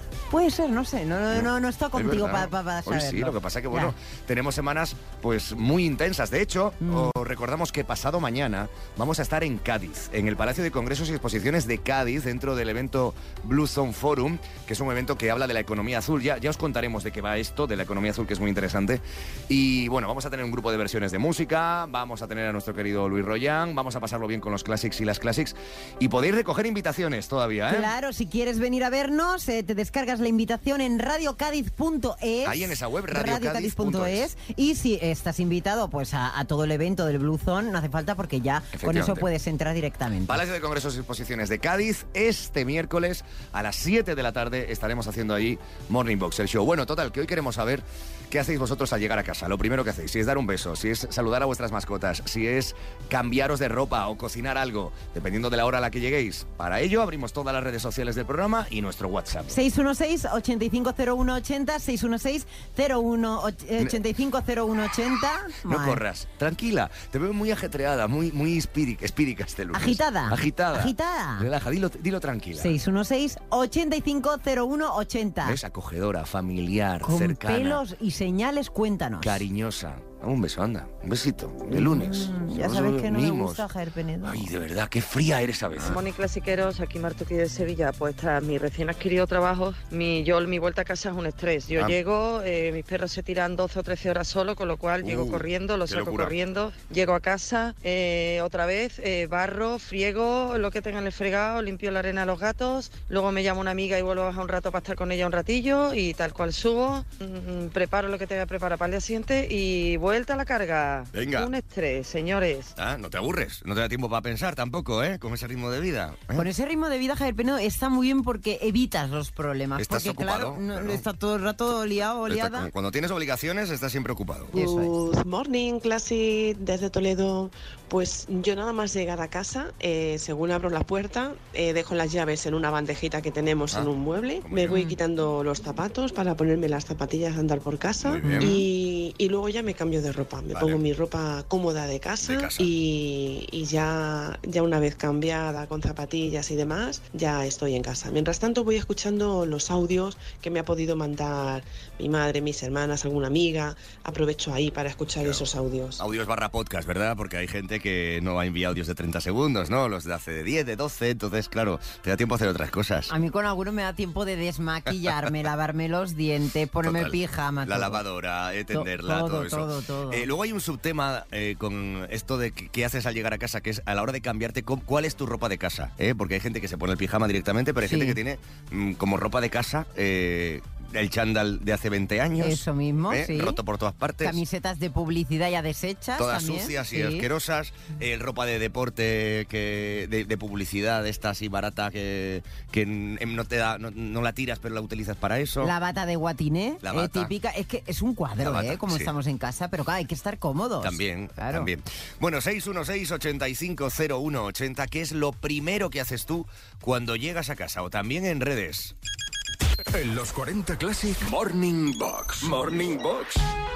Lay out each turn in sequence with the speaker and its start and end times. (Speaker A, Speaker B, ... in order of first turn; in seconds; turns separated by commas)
Speaker A: 0.3-3.9, Speaker B: 1.3-27.9, Speaker A: 6.8-7.1, Speaker A: 27.7-40.4, Speaker B: 32.4-34.3, Speaker B: 38.7-39.3, Speaker B: 40.2-59.6, Speaker A: 59.5-66.0, Speaker B: 65.6-72.7, Speaker A: 69.7-71.5, Speaker A: 72.6-75.6, Speaker B: 75.4-77.8, Speaker A: 77.0-79.4, Speaker B: 79.2-83.6, Speaker A: 81.7-84.5, Speaker B: 84.2-86.0, Speaker C: 85.8-112.7, Speaker B: 95.0-96.3, Speaker B: 111.1-111.5, Speaker B: 112.8-116.5, Speaker A: 116.3-122.7, Speaker B: 119.8-121.0, Speaker B: 122.3-124.6, Speaker D: 124.5-156.0, Speaker A: 124.5-124.9, Speaker B: 134.4-134.8, Speaker A: 134.7-134.9, Speaker B: 138.0-138.6, Speaker A: 138.2-138.7, Speaker B: 140.5-140.8, Speaker B: 142.2-142.7, Speaker B: 155.2-163.1, Speaker A: 163.1-168.0, Speaker B: 166.8-184.4, Speaker A: 168.7-170.3, Speaker A: 177.8-178.2, Speaker A: 182.4-183.6, Speaker A: 184.2-187.3, Speaker B: 186.2-195.7, Speaker A: 195.6-201.7, Speaker B: 196.8-197.3, Speaker B: 198.4-199.1, Speaker B: 200.8-208.9, Speaker E: 209.9-213.4, Speaker B: 212.4-212.7